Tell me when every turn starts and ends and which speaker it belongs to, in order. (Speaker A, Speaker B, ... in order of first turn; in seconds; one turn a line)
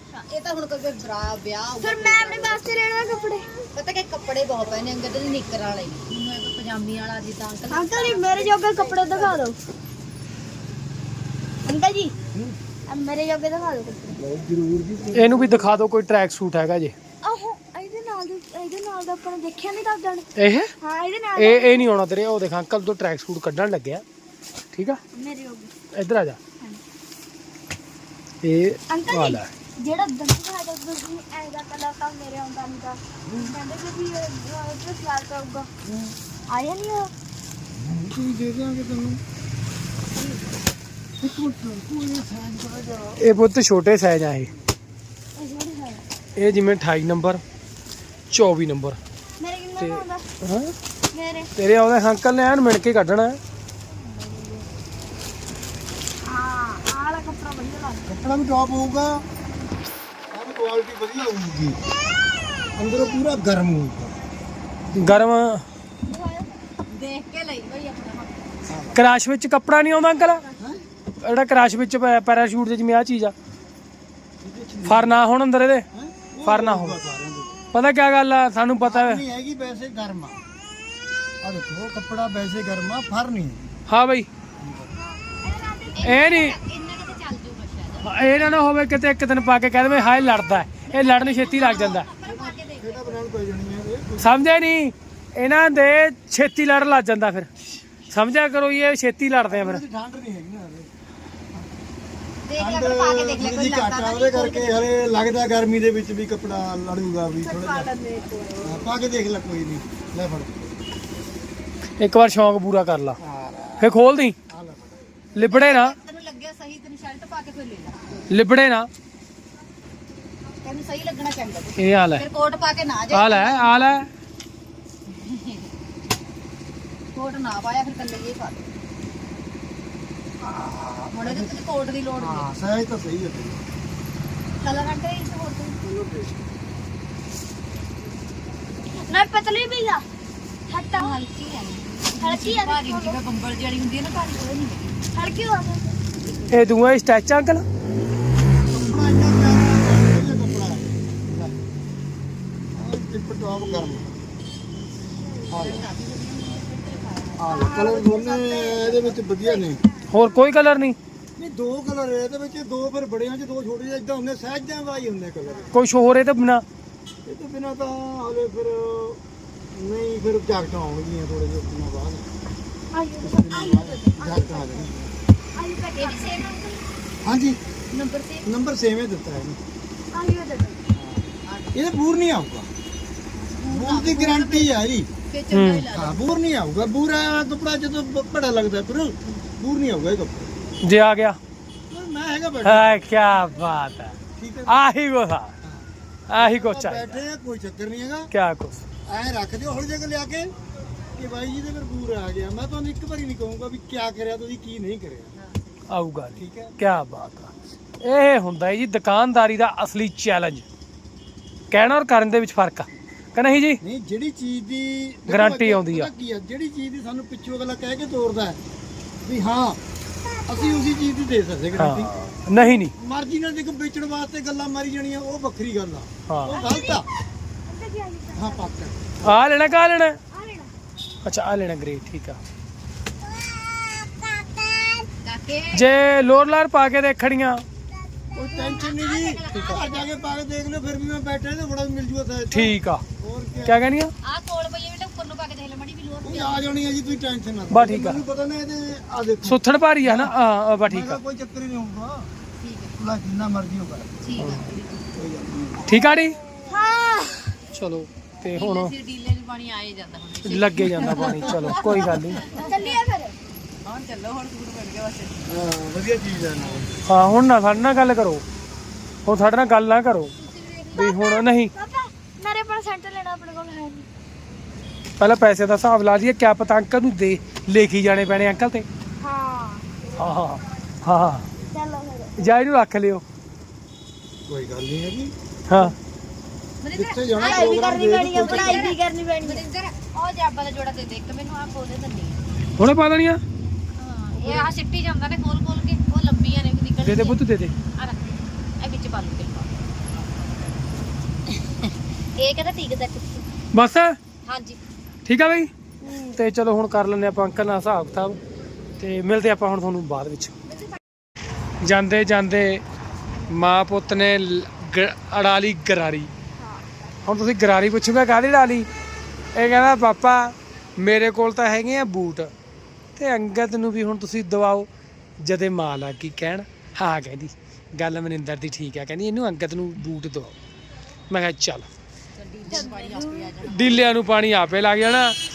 Speaker A: 0.3-2.8
Speaker B: 1.8-3.5
Speaker A: 3.8-9.4
Speaker B: 7.7-9.6
Speaker B: 11.7-12.1
Speaker B: 12.9-14.2
Speaker C: 14.2-15.7
Speaker D: 15.2-16.9
Speaker B: 17.2-20.3
Speaker D: 20.4-20.7
Speaker B: 20.8-21.9
Speaker D: 21.4-24.0
Speaker D: 24.7-25.0
Speaker B: 25.1-25.7
Speaker D: 25.9-26.4
Speaker D: 28.4-29.5
Speaker B: 28.9-35.7
Speaker C: 33.3-33.6
Speaker C: 35.9-36.1
Speaker B: 36.5-37.1
Speaker C: 37.8-39.2
Speaker C: 41.2-43.3
Speaker D: 43.2-44.5
Speaker B: 45.4-46.0
Speaker D: 46.4-47.4
Speaker D: 48.3-49.0
Speaker B: 49.4-50.2
Speaker D: 49.8-50.7
Speaker B: 51.1-51.5
Speaker D: 51.6-53.4
Speaker B: 53.9-54.7
Speaker B: 56.3-58.0
Speaker C: 58.1-59.2
Speaker C: 60.3-61.8
Speaker C: 62.8-64.2
Speaker D: 65.0-65.6
Speaker B: 66.1-66.5
Speaker A: 66.9-68.6
Speaker C: 68.7-69.0
Speaker D: 69.0-70.4
Speaker D: 71.2-73.3
Speaker C: 74.4-75.2
Speaker D: 74.9-75.9
Speaker C: 75.9-77.6
Speaker D: 76.5-77.0
Speaker D: 77.7-79.2
Speaker C: 78.8-80.4
Speaker C: 81.4-83.7
Speaker D: 83.9-84.3
Speaker C: 84.6-84.9
Speaker B: 85.4-86.3
Speaker A: 85.9-88.6
Speaker D: 86.0-86.6
Speaker D: 88.0-92.1
Speaker A: 90.9-93.2
Speaker C: 92.2-94.4
Speaker D: 94.2-97.5
Speaker D: 98.1-99.8
Speaker C: 99.5-100.9
Speaker A: 102.5-104.8
Speaker C: 102.6-107.9
Speaker B: 107.4-108.9
Speaker C: 108.6-110.8
Speaker D: 112.0-113.2
Speaker C: 113.2-113.9
Speaker D: 113.8-114.4
Speaker C: 114.5-115.2
Speaker D: 115.4-116.0
Speaker A: 115.4-118.0
Speaker D: 118.3-118.9
Speaker A: 120.6-123.8
Speaker D: 121.8-122.2
Speaker D: 123.1-124.1
Speaker A: 125.1-125.7
Speaker A: 127.2-128.7
Speaker C: 130.4-131.6
Speaker A: 131.1-132.5
Speaker C: 132.2-133.6
Speaker A: 134.6-136.2
Speaker B: 139.0-140.0
Speaker B: 140.7-141.2
Speaker A: 140.9-145.0
Speaker B: 142.2-143.2
Speaker B: 145.1-146.0
Speaker D: 146.5-147.6
Speaker C: 148.7-151.5
Speaker C: 152.7-154.2
Speaker A: 155.5-158.1
Speaker C: 155.5-155.9
Speaker C: 157.4-159.8
Speaker B: 157.5-160.0
Speaker A: 158.6-159.0
Speaker D: 160.1-161.0
Speaker C: 161.4-165.8
Speaker D: 165.7-166.6
Speaker C: 167.2-169.2
Speaker C: 169.7-172.3
Speaker B: 172.9-174.9
Speaker C: 173.2-175.1
Speaker B: 175.6-176.8
Speaker A: 175.9-176.6
Speaker C: 177.2-177.6
Speaker B: 177.9-178.4
Speaker C: 178.4-179.6
Speaker B: 180.1-180.8
Speaker C: 180.9-182.7
Speaker A: 181.4-181.9
Speaker A: 183.4-186.3
Speaker C: 183.7-185.1
Speaker D: 185.5-185.9
Speaker C: 185.9-190.6
Speaker D: 190.8-191.4
Speaker C: 191.9-193.0
Speaker D: 192.6-195.6
Speaker C: 194.4-194.8
Speaker C: 195.6-198.3
Speaker D: 196.3-197.2
Speaker D: 198.3-198.8
Speaker C: 199.1-200.5
Speaker C: 201.2-205.3
Speaker D: 205.9-207.5
Speaker C: 206.4-206.8
Speaker D: 208.0-210.7
Speaker D: 211.7-213.8
Speaker C: 213.8-218.6
Speaker D: 215.3-216.1
Speaker C: 219.2-219.8
Speaker C: 220.5-222.2
Speaker D: 221.8-222.9
Speaker C: 222.9-227.1
Speaker D: 226.3-226.6
Speaker B: 226.5-227.0
Speaker B: 227.7-228.7
Speaker C: 228.3-229.4
Speaker D: 229.2-230.2
Speaker B: 230.3-230.7
Speaker D: 231.2-232.4
Speaker B: 234.4-235.0
Speaker A: 235.2-235.9
Speaker D: 235.7-237.6
Speaker C: 238.4-243.8
Speaker A: 238.4-240.1
Speaker D: 242.5-243.0
Speaker D: 243.7-244.1
Speaker A: 244.2-246.7
Speaker C: 246.2-252.3
Speaker D: 247.7-248.2
Speaker D: 249.4-251.2
Speaker A: 252.6-252.9
Speaker C: 253.0-254.2
Speaker A: 254.2-255.1
Speaker D: 254.4-254.7
Speaker C: 255.2-255.9
Speaker D: 255.9-256.4
Speaker B: 256.7-257.5
Speaker D: 257.7-258.9
Speaker A: 258.5-263.0
Speaker D: 260.5-262.4
Speaker B: 261.6-263.4
Speaker A: 263.9-265.4
Speaker C: 265.5-267.0
Speaker D: 267.1-268.4
Speaker D: 269.2-270.3
Speaker B: 270.4-274.1
Speaker D: 270.9-271.7
Speaker D: 275.2-278.9
Speaker B: 279.2-279.9
Speaker D: 280.2-281.5
Speaker B: 281.7-282.5
Speaker D: 282.4-283.2
Speaker C: 284.5-285.3
Speaker D: 285.7-285.9
Speaker A: 286.8-292.4
Speaker C: 286.9-289.0
Speaker B: 287.4-289.6
Speaker D: 292.8-293.4
Speaker A: 294.0-299.7
Speaker D: 297.0-297.7
Speaker A: 301.8-303.4
Speaker D: 303.7-304.2
Speaker A: 304.5-304.8
Speaker D: 305.3-305.7
Speaker B: 306.0-306.4
Speaker D: 306.3-308.4
Speaker D: 309.0-310.5
Speaker D: 311.8-312.8
Speaker D: 313.5-316.3
Speaker B: 316.6-316.9
Speaker D: 317.2-318.9
Speaker D: 319.6-322.5
Speaker D: 323.2-324.9
Speaker D: 325.4-330.6
Speaker D: 331.3-331.9
Speaker A: 332.4-334.1
Speaker B: 332.7-333.6
Speaker D: 333.7-335.4